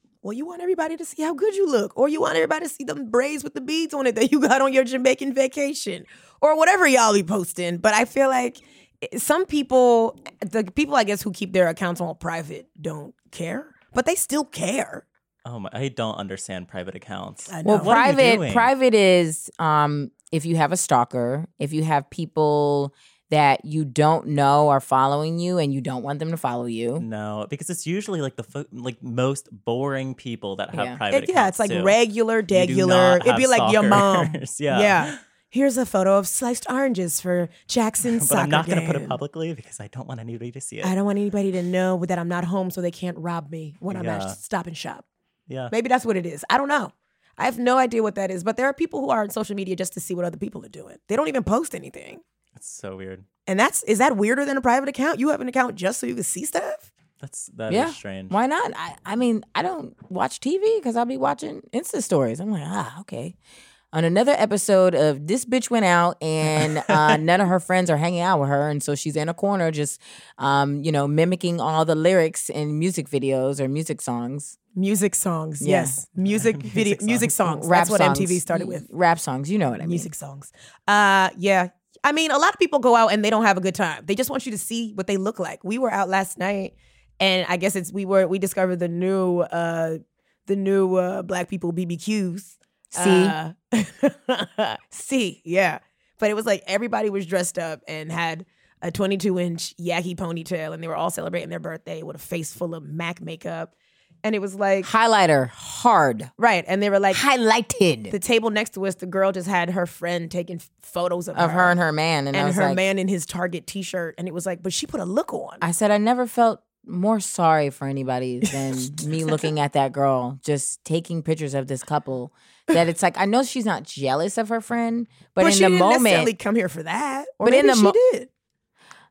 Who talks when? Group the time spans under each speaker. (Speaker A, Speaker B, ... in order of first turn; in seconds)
Speaker A: 0.2-15.1, 17.5-18.0, 31.1-39.2, 40.8-45.1, 45.7-52.2, 53.5-56.9, 74.8-78.9, 79.8-103.7, 104.2-104.9, 106.4-107.2, 108.1-111.8, 112.3-115.7, 125.4-128.3
Speaker B: 15.4-18.7, 27.0-32.0, 32.5-35.2, 38.1-41.0, 43.9-44.4, 52.6-53.2, 57.2-58.4, 76.2-77.3
Speaker C: 17.6-27.1, 30.7-31.0, 57.7-63.4, 63.9-74.6, 75.6-76.0, 77.4-80.1, 93.0-93.3, 104.8-106.3, 107.1-108.2, 111.3-112.8, 115.6-126.3, 127.4-128.0